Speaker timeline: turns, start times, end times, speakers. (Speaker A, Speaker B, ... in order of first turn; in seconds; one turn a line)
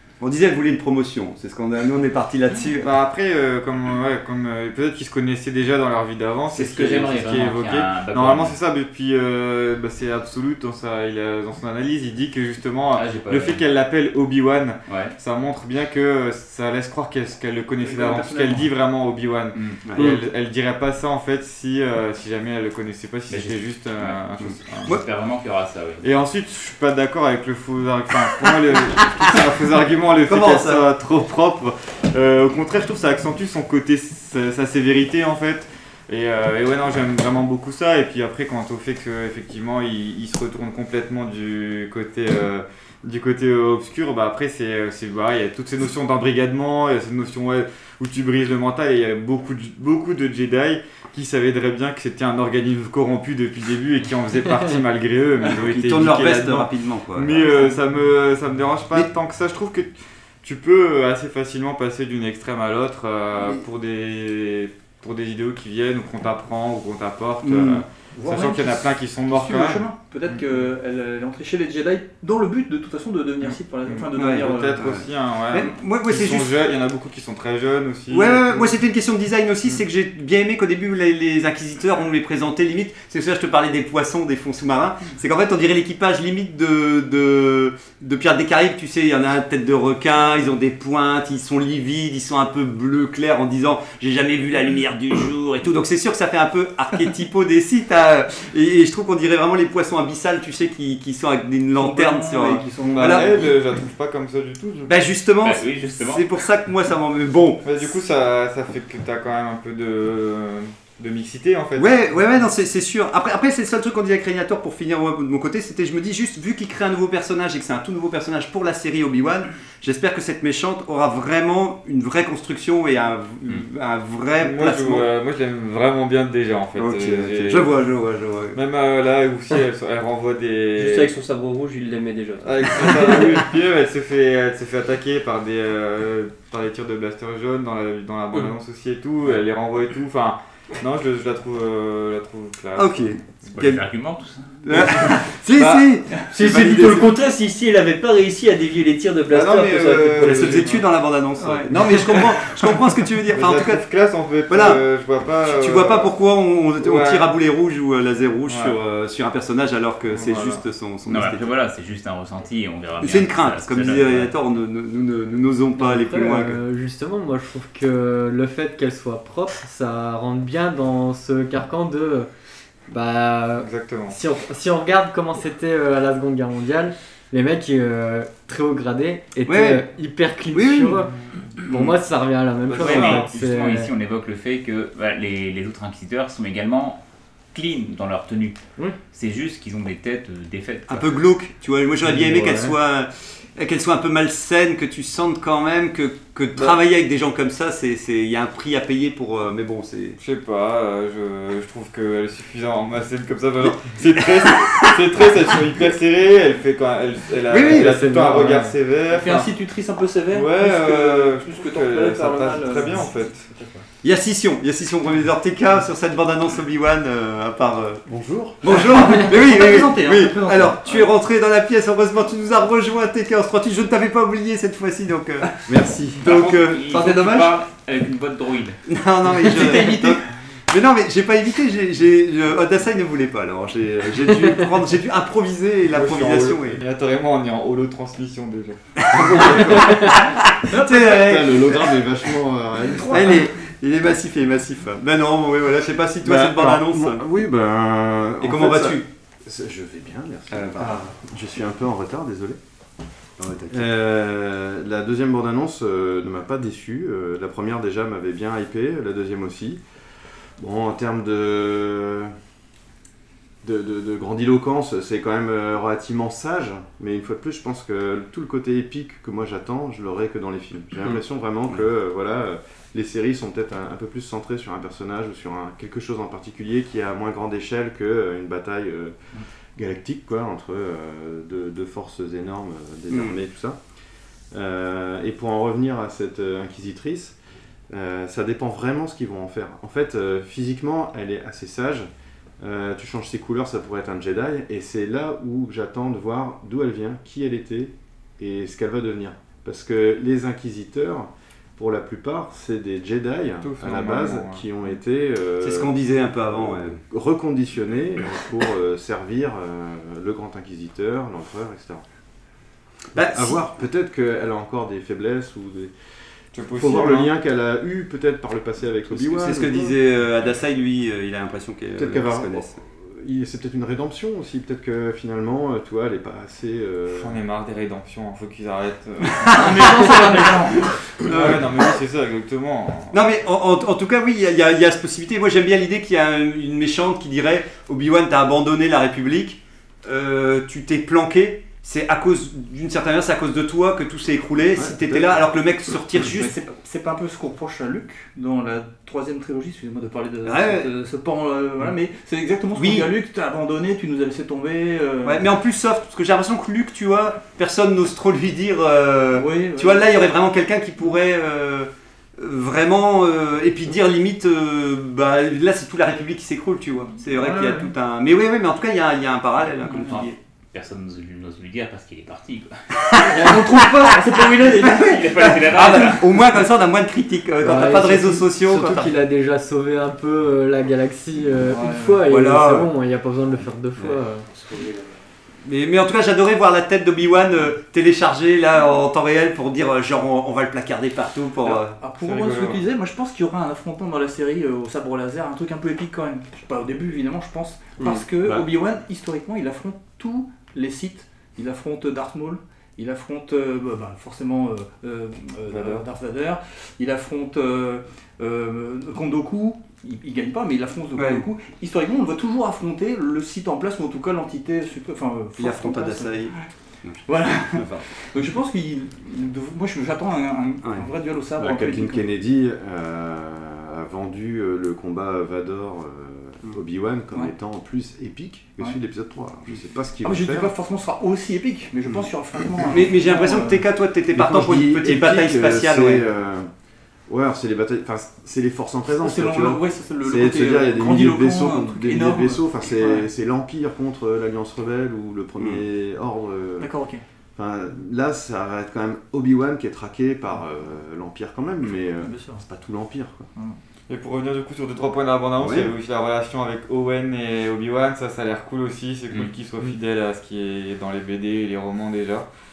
Speaker A: 0.2-2.9
Speaker B: 2.8-24.9
Speaker C: 6.5-8.6
Speaker C: 12.9-13.6
Speaker C: 14.9-15.2
Speaker D: 17.8-18.7
Speaker C: 19.6-19.8
Speaker A: 19.9-20.2
Speaker C: 23.3-24.2
Speaker A: 24.4-25.0
Speaker C: 24.9-26.0
Speaker B: 26.0-70.4
Speaker A: 30.2-30.9
Speaker A: 55.6-57.7
Speaker A: 67.4-67.8
Speaker D: 68.1-74.8
Speaker B: 73.8-78.7
Speaker A: 74.2-76.6
Speaker A: 78.1-103.4
Speaker D: 101.8-103.5
Speaker B: 102.9-104.9
Speaker A: 104.9-107.8
Speaker C: 105.4-106.2
Speaker B: 107.6-111.9
Speaker A: 111.8-125.1
Speaker B: 124.4-127.7
Speaker A: 126.8-128.6
Speaker B: 128.5-131.1
Speaker E: 130.8-133.4
Speaker B: 132.4-143.1
Speaker A: 142.8-143.8
Speaker C: 143.5-144.5
Speaker A: 144.6-147.1
Speaker E: 146.3-150.7
Speaker B: 149.3-150.9
Speaker A: 149.7-153.8
Speaker D: 151.4-152.4
Speaker B: 153.3-156.1
Speaker A: 154.5-154.8
Speaker A: 155.4-161.5
Speaker B: 156.8-157.3
Speaker B: 158.4-158.8
Speaker B: 160.1-160.6
Speaker C: 161.1-164.3
Speaker A: 163.0-166.6
Speaker F: 165.8-172.3
Speaker F: 172.9-181.1
Speaker B: 173.6-174.2
Speaker A: 179.4-179.8
Speaker A: 180.5-181.0
Speaker F: 181.6-183.9
Speaker B: 182.7-183.4
Speaker C: 182.8-187.0
Speaker C: 187.5-188.6
Speaker C: 189.1-191.1
Speaker A: 190.9-200.2
Speaker F: 192.2-192.7
Speaker B: 200.2-209.5
Speaker A: 204.4-204.8
Speaker A: 207.5-207.9
Speaker F: 207.6-208.8
Speaker D: 209.1-213.8
Speaker B: 210.3-213.5
Speaker A: 214.0-218.1
Speaker G: 218.1-218.6
Speaker A: 218.6-225.5
Speaker D: 218.7-221.1
Speaker G: 225.7-226.3
Speaker A: 226.2-227.5
Speaker C: 226.2-228.8
Speaker A: 228.9-236.8
Speaker D: 229.4-230.2
Speaker B: 235.9-240.0
Speaker A: 239.1-242.0
Speaker G: 239.2-240.1
Speaker D: 240.7-241.3
Speaker G: 241.0-243.4
Speaker A: 243.1-247.2
Speaker G: 246.2-252.6
Speaker A: 248.4-249.1
Speaker A: 250.5-251.1
Speaker A: 253.4-253.9
Speaker G: 253.7-259.8
Speaker G: 260.6-262.3
Speaker G: 263.6-279.1
Speaker G: 279.8-283.8
Speaker A: 283.1-283.3
Speaker G: 284.5-287.4
Speaker G: 287.9-292.1
Speaker G: 292.6-312.0
Speaker B: 303.6-304.6
Speaker A: 305.6-307.0
Speaker A: 313.1-313.6
Speaker G: 313.2-315.9
Speaker B: 316.5-317.3
Speaker G: 316.8-319.9
Speaker A: 319.1-322.8
Speaker G: 321.9-327.4
Speaker B: 327.1-330.3
Speaker A: 329.4-330.2
Speaker D: 329.5-330.9
Speaker B: 331.2-333.2
Speaker A: 331.3-331.8
Speaker A: 333.1-346.5
Speaker G: 344.8-345.4
Speaker D: 346.2-355.4
Speaker A: 350.4-350.9
Speaker A: 352.8-353.1
Speaker A: 355.2-370.4
Speaker D: 359.3-360.2
Speaker D: 367.3-367.9
Speaker D: 369.9-370.1
Speaker C: 369.9-372.7
Speaker A: 373.1-373.7
Speaker D: 373.2-375.2
Speaker C: 374.3-376.2
Speaker A: 374.7-379.1
Speaker F: 377.6-384.5
Speaker D: 381.7-382.2
Speaker A: 382.3-382.9
Speaker A: 385.6-392.0
Speaker D: 391.6-416.7
Speaker B: 392.2-392.8
Speaker B: 405.7-406.0
Speaker A: 411.2-411.4
Speaker A: 415.6-418.0
Speaker D: 417.3-422.3
Speaker G: 421.6-430.7
Speaker D: 430.2-433.8
Speaker A: 432.8-436.2
Speaker G: 434.3-436.7
Speaker G: 437.3-446.9
Speaker D: 439.2-443.3
Speaker D: 446.8-447.2
Speaker G: 447.6-453.5
Speaker D: 452.2-452.6
Speaker B: 454.1-462.5
Speaker A: 455.6-455.9